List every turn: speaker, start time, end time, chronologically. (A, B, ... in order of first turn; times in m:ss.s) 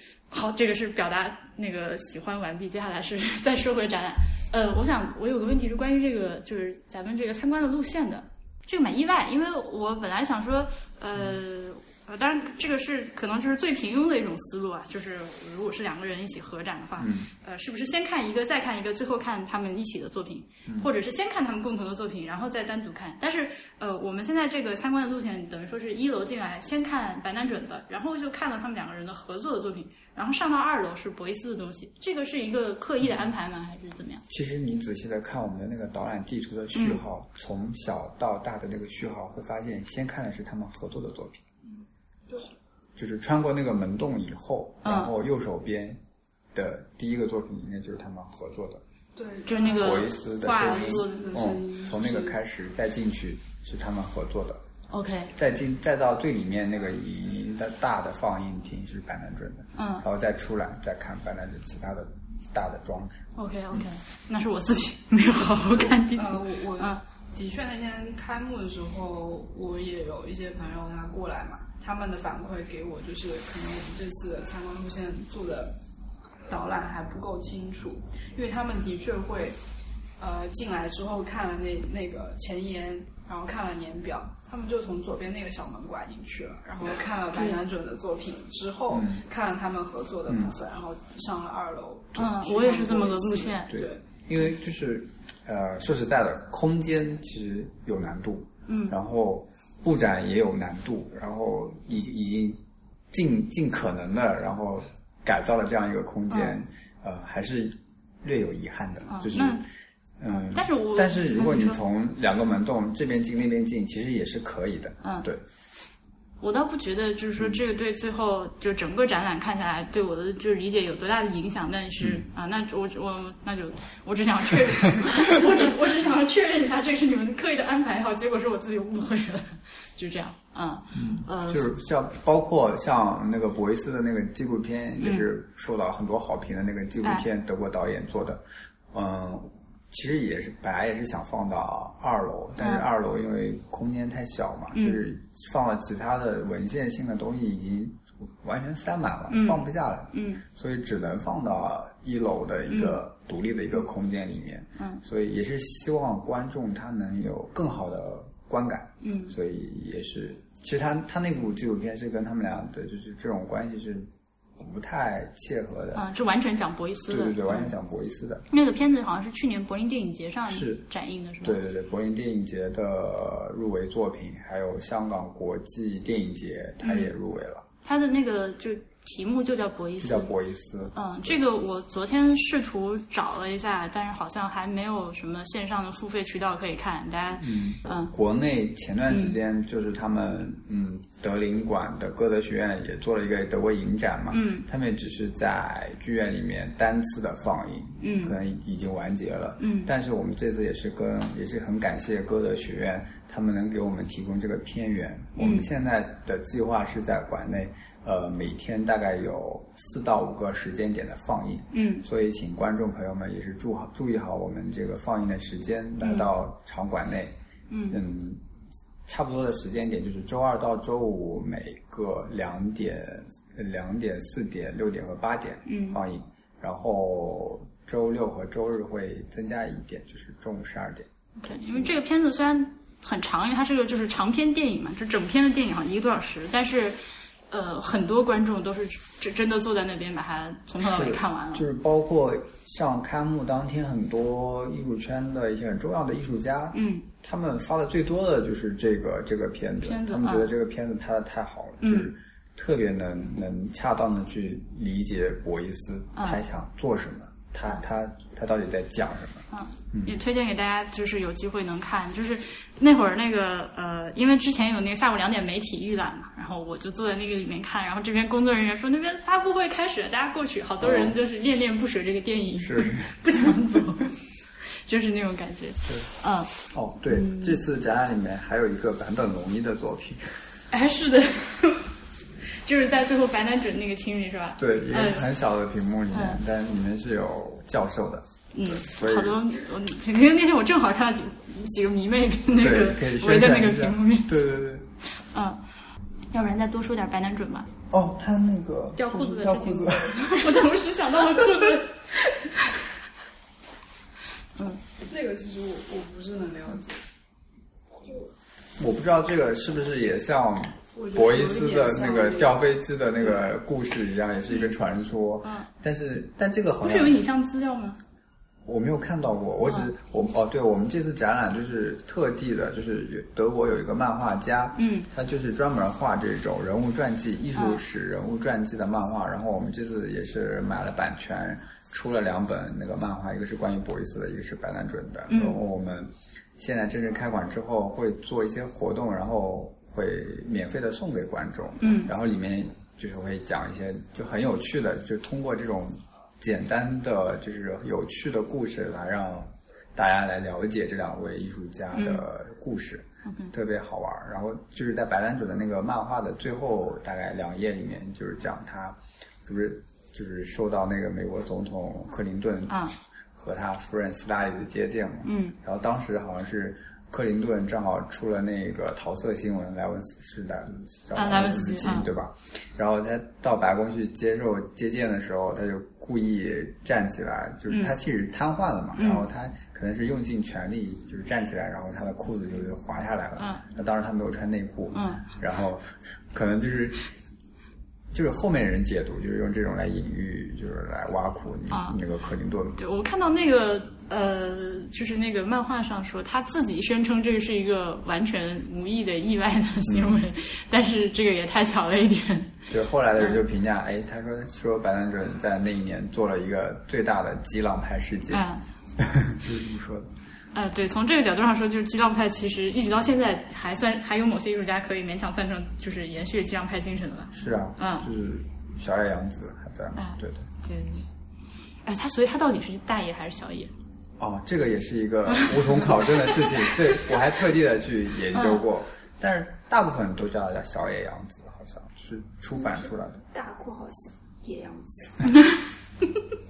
0:00.3-0:34.2 A
0:17.0-0:17.3 B
0:34.3-0:41.4 B
0:36.7-0:37.0 A
0:43.0-0:46.0 B
0:44.8-0:45.1 A
0:46.5-0:48.8 B
0:49.1-0:52.4 C
0:49.4-0:51.4 A
0:49.8-0:54.6 B
0:54.9-0:55.3 A
0:55.3-1:03.2 B
0:59.7-1:00.0 A
1:03.4-1:07.0 A
1:05.7-1:15.8 C
1:16.5-1:19.6 C
1:20.2-1:34.0 C
1:27.3-1:27.6 A
1:28.9-1:29.2 B
1:30.3-1:30.5 B
1:32.1-1:33.7 A
1:33.7-1:49.6 B
1:38.7-1:39.0 A
1:46.3-1:46.6 A
1:49.1-1:49.7 A
1:50.2-1:55.4 B
1:50.3-1:51.8 A
1:55.0-1:55.3 A
1:56.4-2:11.7 A
2:10.9-2:46.1 B
2:15.0-2:15.3 A
2:22.6-2:22.8 A
2:24.7-2:25.0 A
2:29.3-2:30.4 A
2:32.7-2:33.0 A
2:39.0-2:39.4 A
2:45.9-2:47.7 A
2:47.1-2:48.5 B
2:48.5-2:51.6 A
2:50.5-2:50.9 B
2:51.4-2:57.6 B
2:56.8-2:57.1 A
2:57.8-3:00.3 A
3:00.0-3:01.3 B
3:00.9-3:08.1 A
3:07.4-3:37.3 B
3:09.1-3:09.3 A
3:14.3-3:14.7 A
3:18.0-3:18.4 A
3:19.6-3:19.9 A
3:25.4-3:25.7 A
3:31.7-3:32.0 A
3:36.0-3:36.3 A
3:37.7-3:38.0 A
3:37.9-3:38.4 B
3:39.0-3:51.1 B
3:45.6-3:46.0 A
3:51.4-3:57.0 A
3:57.5-4:01.6 A
4:00.8-4:20.2 B
4:06.7-4:07.1 A
4:09.8-4:10.5 A
4:11.8-4:12.1 A
4:16.2-4:16.4 A
4:19.5-4:36.5 A
4:30.8-4:31.2 B
4:32.6-4:33.2 B
4:35.8-4:36.1 B
4:36.7-4:40.5 B
4:37.1-4:37.6 A
4:40.7-4:41.9 A
4:42.6-4:45.3 A
4:44.6-4:49.4 B
4:46.1-4:46.4 A
4:48.5-4:54.4 A
4:52.6-4:54.9 B
4:55.2-4:55.6 A
4:56.3-4:57.7 A
4:57.9-5:00.7 B
4:59.0-5:02.0 A
5:01.4-5:01.6 B
5:05.1-5:07.0 C
5:08.8-5:17.2 B
5:10.9-5:12.7 C
5:13.2-5:13.5 C
5:16.8-5:18.0 A
5:18.6-6:02.8 B
5:24.7-5:25.1 A
5:27.5-5:27.8 A
5:35.3-5:35.6 A
5:41.8-5:42.1 A
5:51.9-5:52.2 A
5:53.2-5:53.5 A
6:02.7-6:02.9 A
6:03.3-6:27.0 B
6:05.2-6:05.6 A
6:11.1-6:12.1 A
6:17.7-6:18.0 A
6:18.9-6:19.2 A
6:23.4-6:23.6 A
6:24.9-6:25.3 A
6:28.1-6:32.8 B
6:31.7-6:32.0 A
6:32.8-6:42.6 A
6:39.9-6:40.2 B
6:42.7-6:48.4 B
6:48.3-6:48.6 A
6:49.0-6:50.1 B
6:50.5-6:58.1 A
6:57.3-7:00.5 B
7:00.0-7:01.1 A
7:01.8-7:03.7 A
7:04.2-7:13.2 B
7:05.3-7:07.0 A
7:08.3-7:08.7 A
7:12.5-7:15.3 D